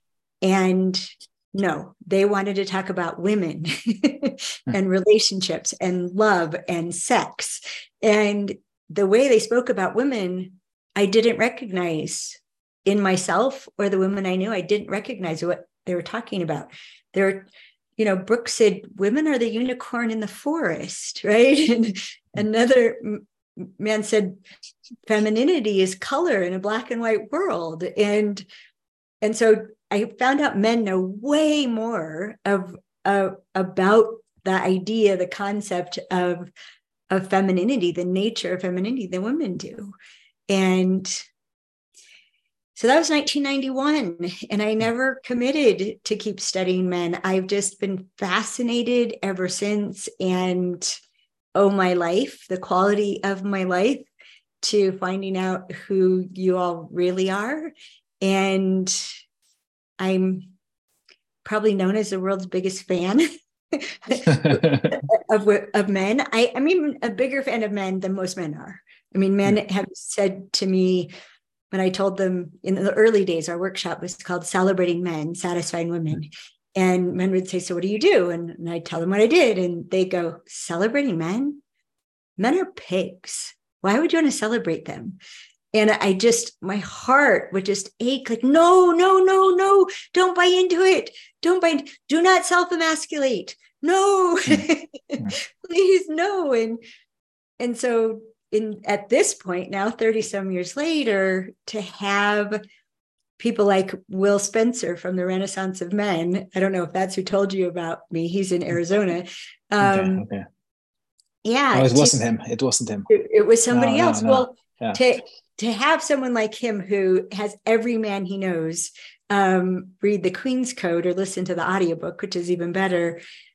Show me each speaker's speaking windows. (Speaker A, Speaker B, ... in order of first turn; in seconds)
Speaker A: 0.4-24.4, 25.1-28.4, 29.2-36.5, 37.1-39.9, 40.5-41.2, 42.7-51.0, 51.5-54.1, 54.6-59.1, 60.0-60.5, 61.4-71.1, 71.7-81.6, 82.4-85.2, 85.7-96.8, 97.6-102.6, 103.4-110.2, 111.4-112.2, 113.1-123.2
Speaker B: 109.8-110.4, 111.7-113.1, 113.7-115.0